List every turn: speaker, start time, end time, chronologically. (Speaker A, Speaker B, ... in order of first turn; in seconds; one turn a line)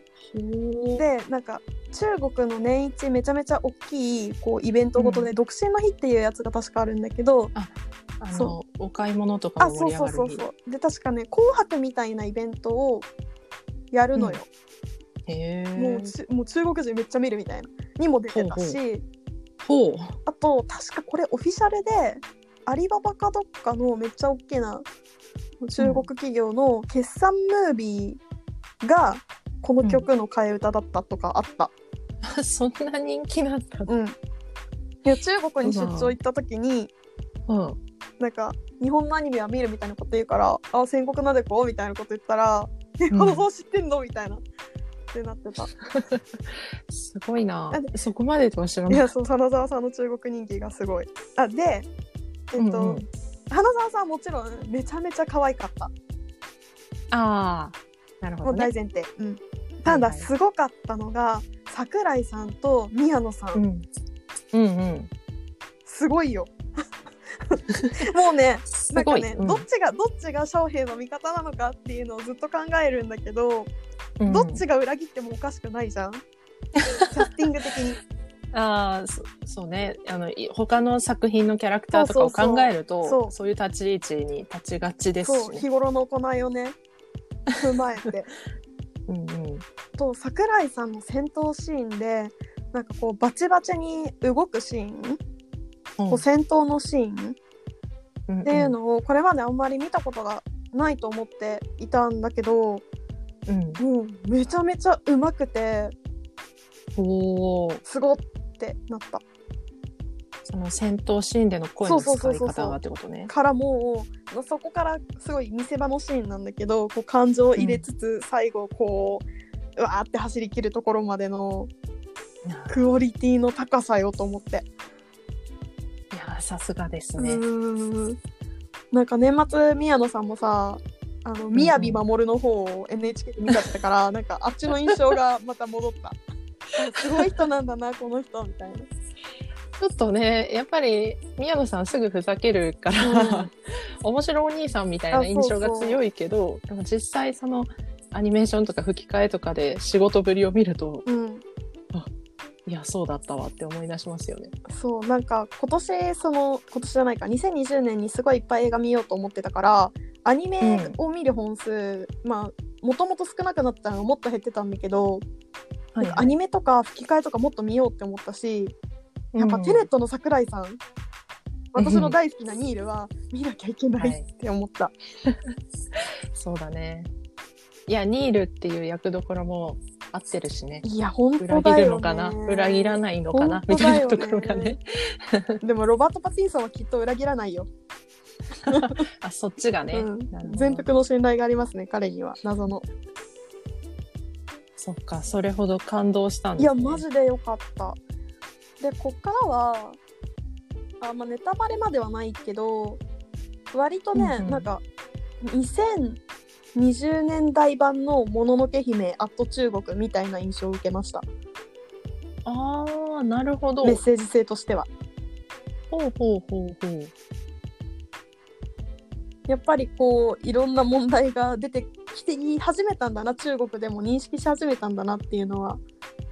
Speaker A: 0.3-1.0
Speaker B: 0.9-7.5
Speaker A: 5.0-5.3
Speaker A: 7.5-10.4
Speaker B: 9.6-13.1
Speaker B: 13.9-14.5
Speaker A: 14.1-14.4
Speaker A: 15.2-16.1
Speaker B: 15.8-19.0
Speaker A: 18.3-18.8
Speaker A: 19.6-20.2
Speaker B: 20.2-24.9
Speaker B: 25.6-28.2
Speaker A: 25.8-26.1
Speaker B: 28.8-31.7
Speaker A: 29.8-30.1
Speaker A: 32.2-33.9
Speaker B: 33.9-34.1
Speaker B: 35.0-36.9
Speaker A: 35.6-36.1
Speaker A: 37.5-37.8
Speaker B: 38.2-44.4
Speaker A: 43.1-43.5
Speaker B: 45.1-45.7
Speaker A: 45.9-46.2
Speaker A: 46.9-49.1
Speaker B: 48.9-51.9
Speaker B: 52.5-55.9
Speaker A: 52.5-53.1
Speaker A: 57.1-58.7
Speaker B: 58.4-63.6
Speaker A: 59.8-60.3
Speaker A: 63.5-63.9
Speaker A: 64.5-65.1
Speaker B: 65.8-66.5
Speaker B: 67.5-73.7
Speaker A: 68.8-69.6
Speaker A: 74.2-74.6
Speaker B: 74.2-76.2
Speaker B: 77.0-78.0
Speaker A: 78.5-85.6
Speaker B: 81.9-83.3
Speaker B: 85.2-86.8
Speaker B: 87.6-88.3
Speaker A: 89.1-89.6
Speaker B: 90.0-95.2
Speaker A: 96.0-96.2
Speaker B: 96.1-97.4
Speaker A: 98.3-98.8
Speaker B: 98.4-102.8
Speaker A: 103.5-103.8
Speaker B: 103.8-105.9
Speaker A: 107.0-107.8
Speaker B: 107.8-109.2
Speaker A: 110.5-113.3
Speaker B: 111.8-119.2
Speaker A: 117.5-117.8
Speaker B: 119.8-121.7
Speaker A: 122.4-122.8
Speaker B: 122.7-124.7
Speaker A: 126.1-127.4
Speaker B: 127.2-128.2
Speaker B: 128.9-136.2
Speaker A: 131.5-132.1
Speaker B: 136.7-138.9
Speaker A: 139.8-151.1
Speaker B: 143.0-143.5
Speaker B: 145.1-146.0
Speaker B: 151.1-151.4
Speaker A: 152.7-154.5
Speaker B: 154.7-165.2
Speaker A: 160.6-160.9
Speaker A: 165.9-166.3
Speaker B: 166.0-168.7
Speaker A: 169.3-169.9
Speaker B: 169.4-170.8
Speaker B: 171.7-174.9
Speaker A: 171.8-172.2
Speaker A: 174.0-174.3
Speaker A: 175.9-177.1
Speaker A: 177.9-180.8
Speaker B: 180.8-184.8
Speaker A: 181.4-185.6
Speaker B: 185.6-187.7
Speaker A: 188.7-190.9
Speaker B: 188.7-189.0
Speaker B: 189.9-192.8
Speaker A: 194.8-197.0
Speaker B: 196.6-198.0
Speaker B: 198.8-200.0
Speaker B: 201.0-203.0
Speaker B: 203.7-204.8
Speaker A: 204.1-204.7
Speaker B: 205.4-206.2
Speaker B: 206.7-211.2
Speaker A: 212.4-214.0
Speaker B: 213.8-214.9
Speaker A: 215.9-217.1
Speaker B: 219.5-225.8